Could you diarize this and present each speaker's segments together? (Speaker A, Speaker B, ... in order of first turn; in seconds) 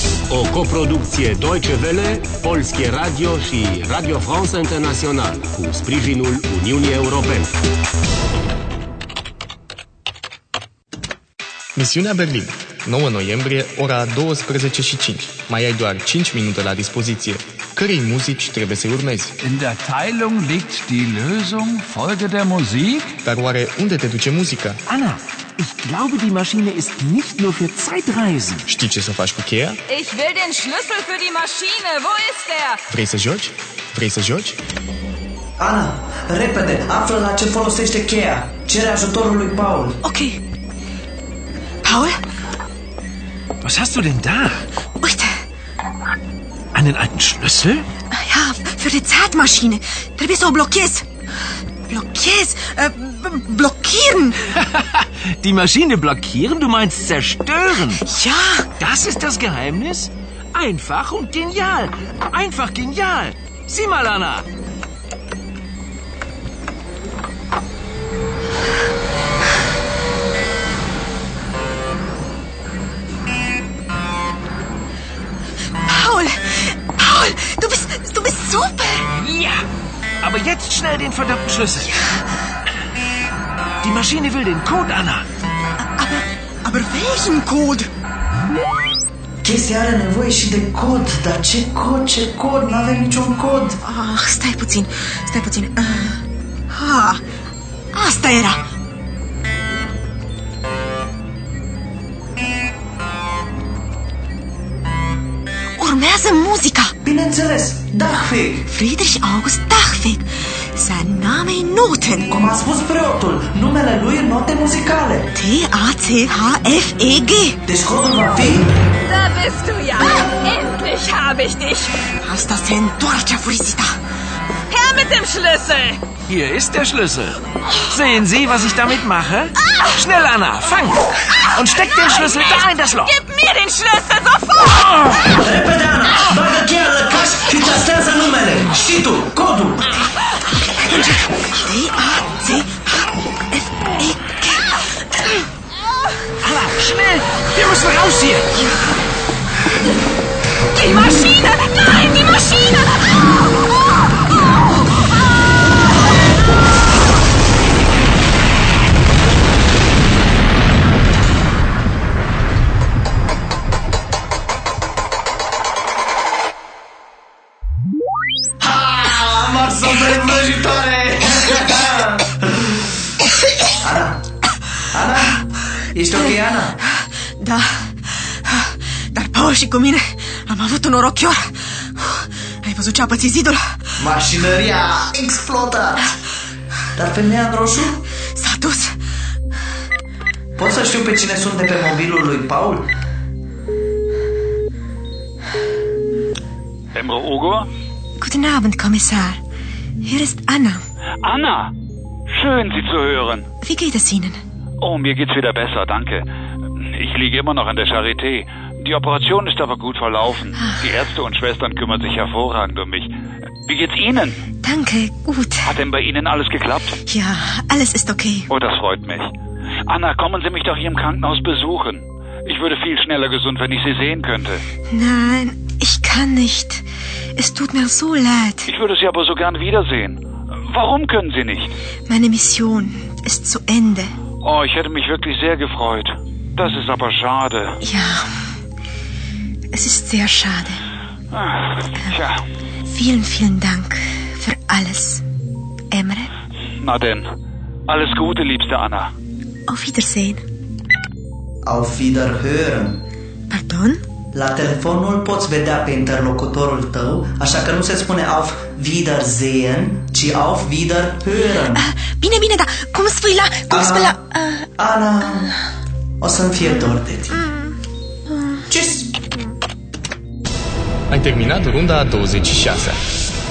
Speaker A: 0.3-7.5
Speaker B: 11.8-19.3, 23.2-24.8, 28.7-29.8, 32.9-34.6, 271.1-273.0
Speaker C: 19.4-23.1
Speaker D: 24.9-28.6, 43.6-44.6, 46.7-47.9, 54.6-58.0, 58.8-64.5, 79.2-79.7, 80.2-81.9, 83.8-85.2, 126.2-133.1, 146.4-148.5
Speaker E: 29.9-32.8, 119.1-121.9, 124.7-126.0, 132.2-134.9, 150.8-152.9
Speaker F: 35.6-40.0, 89.4-93.8, 107.0-108.7, 112.3-115.3, 117.7-118.7, 135.3-139.8, 168.6-172.8, 173.8-174.2, 174.9-176.8, 184.0-186.1, 186.9-188.0, 190.6-192.9, 251.6-253.0, 254.3-261.9, 263.7-264.2, 264.8-265.5, 266.2-267.4, 268.7-269.1
Speaker G: 40.0-40.4, 41.8-42.2, 45.0-45.3, 48.1-51.0, 51.9-54.5, 57.9-58.7, 75.8-79.1, 85.8-87.9, 93.8-97.2, 97.9-98.6, 105.8-106.9, 108.7-112.3, 115.3-117.6, 120.0-120.3, 122.2-124.0, 140.6-144.8, 177.4-183.8, 188.3-188.9, 198.2-199.4, 200.0-200.8, 203.6-204.4, 214.6-215.7, 217.0-218.5, 224.9-226.8, 227.3-228.7, 232.1-234.1, 237.8-238.3, 239.7-240.8, 242.9-245.2, 245.9-246.3, 249.7-250.4, 253.5-254.0, 261.7-264.7, 267.4-267.7, 268.3-268.6
Speaker H: 196.9-197.7, 201.2-201.7, 202.3-203.4, 204.8-206.2, 206.8-213.1, 213.7-214.4, 215.6-217.0, 218.5-219.3, 219.9-224.6, 228.7-231.8, 234.4-237.8, 241.3-242.4, 246.8-247.2, 247.9-249.1